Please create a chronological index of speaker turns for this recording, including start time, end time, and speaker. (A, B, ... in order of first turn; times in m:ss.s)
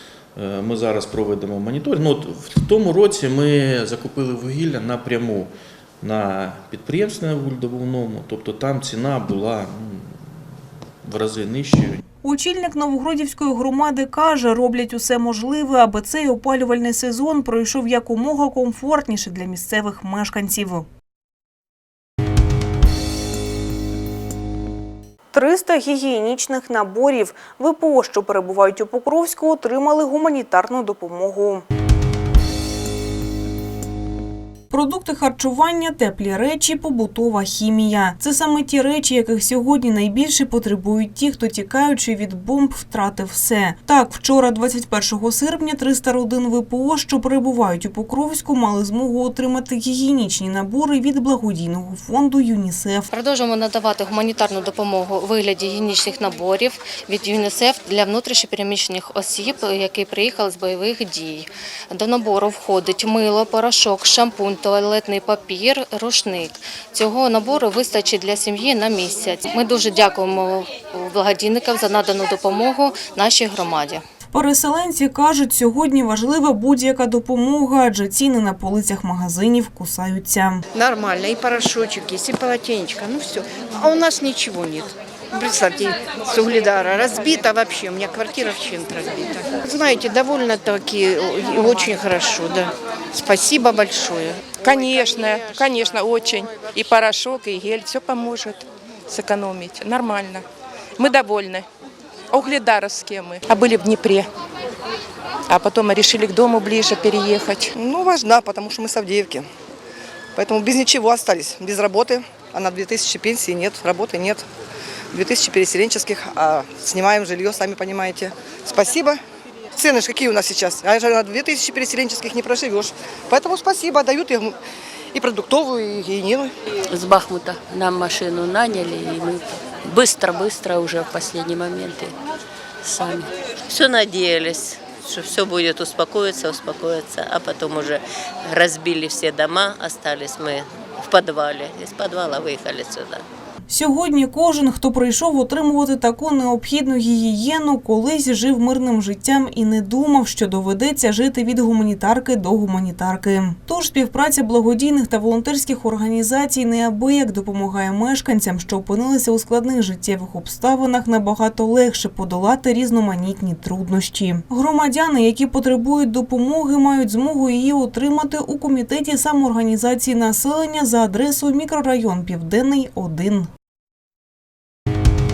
0:00.4-0:10.3 A
0:11.0-0:12.0 A
0:12.2-0:20.8 B
0:25.3-0:31.6 B
0:34.7-0:53.0 B
0:53.1-1:14.0 C
1:14.3-1:20.6 B
1:20.7-1:29.4 D
1:31.7-1:32.3 D
1:33.1-1:34.3 D
1:34.6-1:40.4 E
1:41.0-1:41.6 E
1:42.3-1:44.3 E
1:45.5-1:47.7 E
1:47.8-1:49.5 F
1:50.4-1:54.4 F
1:55.1-1:59.2 F
1:59.8-2:04.6 F
2:05.1-2:06.5 F
2:06.9-2:12.1 G
2:12.8-2:13.3 G
2:13.7-2:23.2 H
2:23.7-2:53.5 B